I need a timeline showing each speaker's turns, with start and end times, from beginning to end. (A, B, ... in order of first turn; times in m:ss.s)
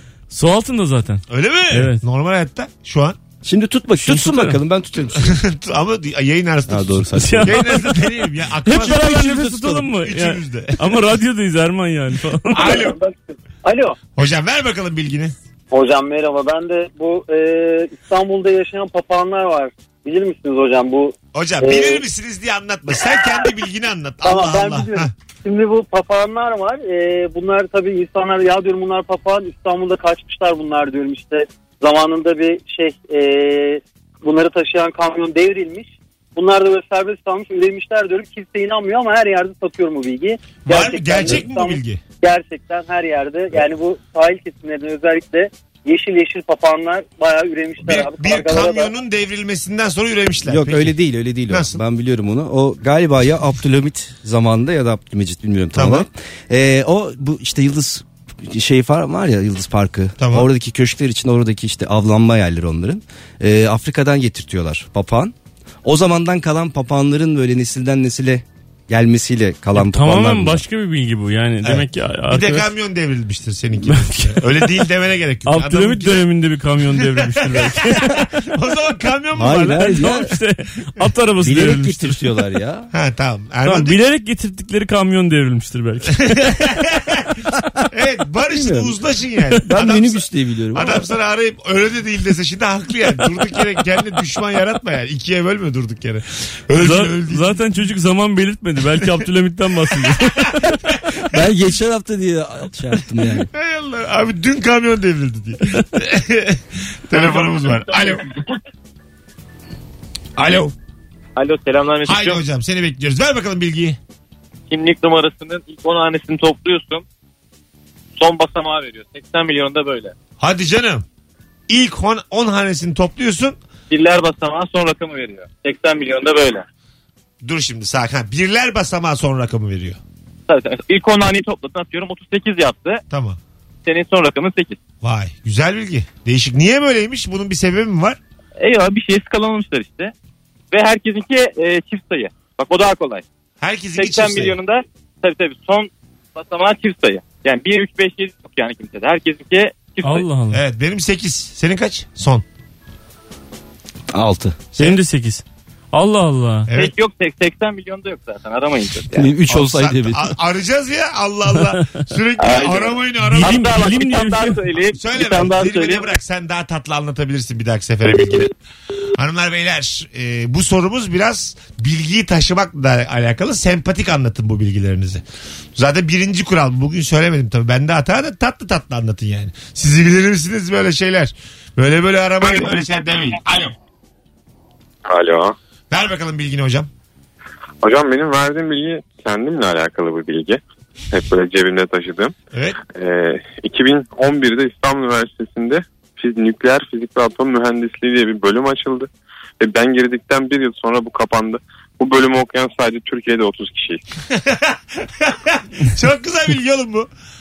0:00.3-0:02.0 A
0:01.3-0:03.2 B
0:03.4-0:05.4 C
0:04.0-0:04.6 A
0:05.2-0:10.9 B
0:06.7-0:07.7 C
0:07.2-0:12.9 A
0:12.5-0:13.0 B
0:12.6-0:14.0 D
0:14.2-0:15.4 B
0:15.7-0:22.1 D
0:21.3-0:25.1 B
0:24.2-0:48.9 D
0:40.7-0:42.0 B
0:47.8-0:51.0 B
0:50.4-1:10.6 C
0:51.5-0:51.8 B
0:55.8-0:56.1 B
1:00.2-1:00.5 B
1:09.7-1:12.7 A
1:11.6-1:16.3 B
1:13.8-1:14.9 A
1:15.5-1:18.3 A
1:17.0-1:19.9 B
1:19.4-1:20.3 C
1:19.7-1:22.2 A
1:21.4-1:22.9 C
1:22.9-1:24.0 B
1:23.6-1:26.2 A
1:26.2-1:27.3 B
1:27.9-1:37.5 B
1:28.4-1:29.0 C
1:29.5-1:31.1 C
1:36.8-1:40.8 A
1:41.3-1:43.5 C
1:43.4-1:48.3 B
1:50.4-1:50.7 B
1:51.4-1:52.4 E
1:52.1-1:54.0 B
1:54.7-1:57.0 E
1:58.2-2:00.1 E
2:00.4-2:01.0 B
2:01.7-2:03.6 B
2:03.9-2:06.7 E
2:07.4-2:10.0 B
2:10.5-2:13.0 E
2:13.1-2:13.4 B
2:13.9-2:14.8 E
2:15.0-2:18.2 B
2:18.6-2:20.1 E
2:20.7-2:23.2 E
2:23.6-2:24.6 B
2:24.0-2:30.3 E
2:30.0-2:30.6 A
2:30.5-2:32.4 B
2:34.1-2:34.6 C
2:34.8-2:36.7 A
2:36.7-2:39.3 E
2:39.1-2:40.4 C
2:39.5-2:43.6 B
2:42.4-2:46.1 E
2:43.3-2:44.6 A
2:45.0-2:48.5 B
2:49.2-2:55.2 B
2:55.8-3:03.7 B
3:05.1-3:05.6 F
3:05.9-3:06.9 B
3:07.8-3:10.6 F
3:11.1-3:12.3 F
3:13.0-3:19.1 F
3:19.6-3:24.0 F
3:24.3-3:27.1 B